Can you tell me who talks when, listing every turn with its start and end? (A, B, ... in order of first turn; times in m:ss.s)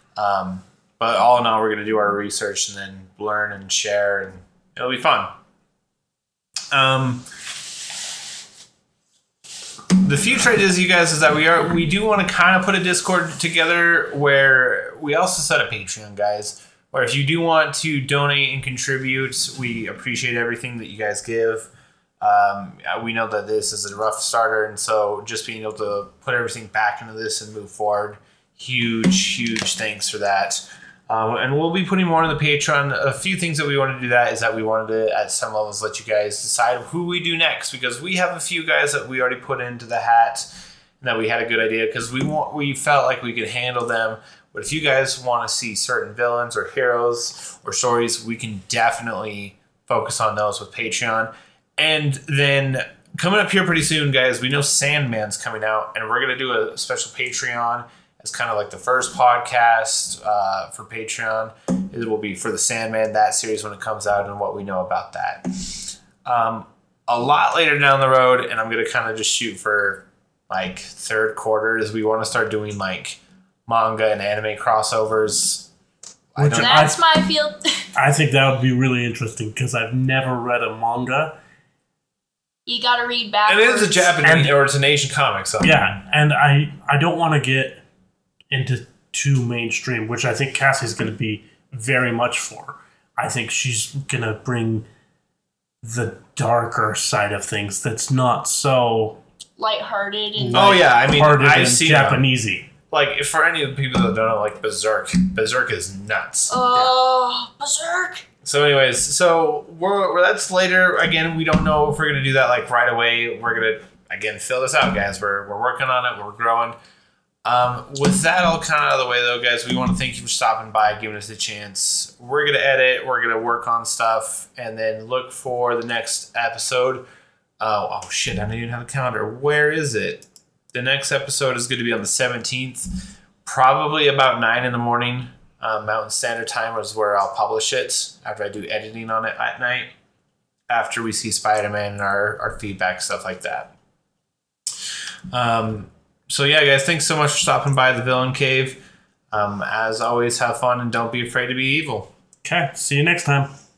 0:00.2-0:05.3 A
0:06.7-0:07.3 A
0:10.0-0:21.7 A
0:22.2-0:40.5 A
0:41.0-1:05.4 A
1:06.2-1:15.7 A
1:16.4-1:16.9 A
1:16.4-1:17.0 B
1:16.5-1:17.9 C
1:18.0-1:21.4 B
1:22.7-1:24.1 C
1:23.5-1:25.9 A
1:24.2-1:24.5 B
1:25.6-1:27.8 B
1:28.5-1:34.9 B
1:35.8-1:39.2 B
1:39.6-1:40.9 C
1:40.4-1:42.7 B
1:40.5-1:42.2 A
1:42.9-1:46.6 A
1:46.5-1:48.3 C
1:48.4-1:56.8 A
1:57.4-2:07.0 A
2:07.6-2:12.9 A
2:13.4-2:19.9 A
2:20.7-2:23.7 A
2:25.3-2:32.1 A
2:32.4-2:33.5 B